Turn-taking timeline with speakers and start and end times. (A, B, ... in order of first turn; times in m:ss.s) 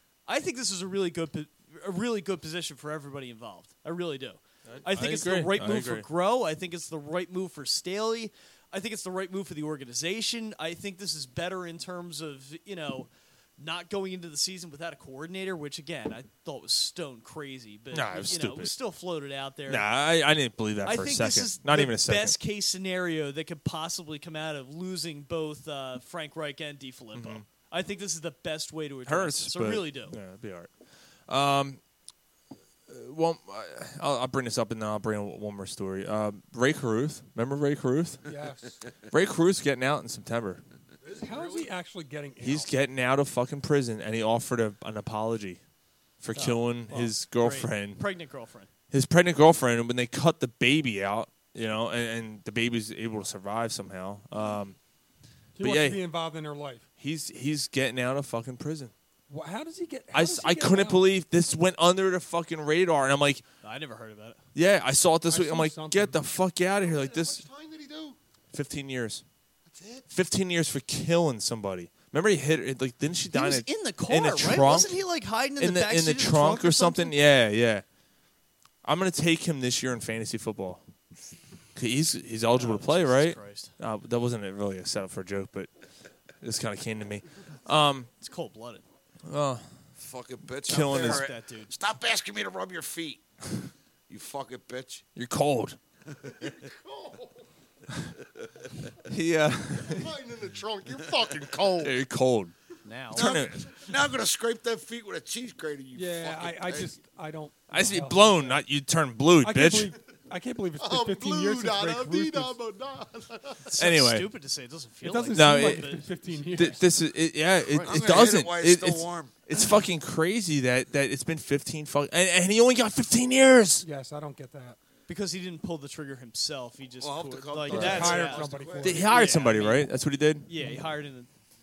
0:00.3-0:19.9 A
0:04.7-0:06.1 B
0:17.9-0:18.7 B
0:19.7-0:22.4 B
0:20.8-0:30.2 A
0:27.1-0:27.5 B
0:29.1-0:30.7 B
0:31.3-0:31.8 B
0:32.9-0:38.2 B
0:38.2-0:38.8 C
0:39.1-0:40.6 B
0:41.0-0:41.7 D
0:41.2-0:42.7 C
0:42.4-0:45.6 B
0:46.2-0:48.0 B
0:46.4-0:48.7 A
0:48.9-0:54.8 B
0:55.6-0:56.8 C
0:55.6-0:56.0 B
0:57.0-0:58.9 B
0:59.3-1:01.1 C
1:00.1-1:03.4 B
1:03.6-1:04.4 A
1:04.6-1:07.4 B
1:05.3-1:06.2 C
1:06.8-1:08.2 D
1:08.5-1:09.2 B
1:09.6-1:10.1 D
1:10.1-1:15.0 B
1:13.3-1:17.1 A
1:15.6-1:17.8 B
1:18.8-1:20.8 B
1:21.8-1:25.7 B
1:22.5-1:23.7 A
1:26.4-1:28.1 B
1:28.2-1:28.8 A
1:29.3-1:29.7 B
1:30.0-1:33.2 E
1:30.5-1:31.3 B
1:30.7-1:31.7 A
1:34.1-1:35.0 E
1:35.2-1:35.8 B
1:36.3-1:37.4 D
1:39.1-1:40.1 B
1:39.8-1:42.0 D
1:41.8-1:42.5 B
1:42.8-1:43.4 A
1:43.1-1:43.6 B
1:43.1-1:46.9 E
1:45.9-1:48.6 C
1:47.7-1:49.9 B
1:49.4-1:52.6 C
1:50.8-1:53.6 D
1:53.7-1:56.7 A
1:53.8-1:54.3 B
1:55.0-1:56.8 C
1:55.3-1:56.0 B
1:56.6-2:03.8 B
1:57.7-1:58.0 D
1:57.8-1:59.3 E
2:03.8-2:04.8 C
2:05.1-2:09.9 A
2:07.0-2:09.2 E
2:07.7-2:09.1 C
2:08.8-2:10.5 B
2:10.5-2:11.3 A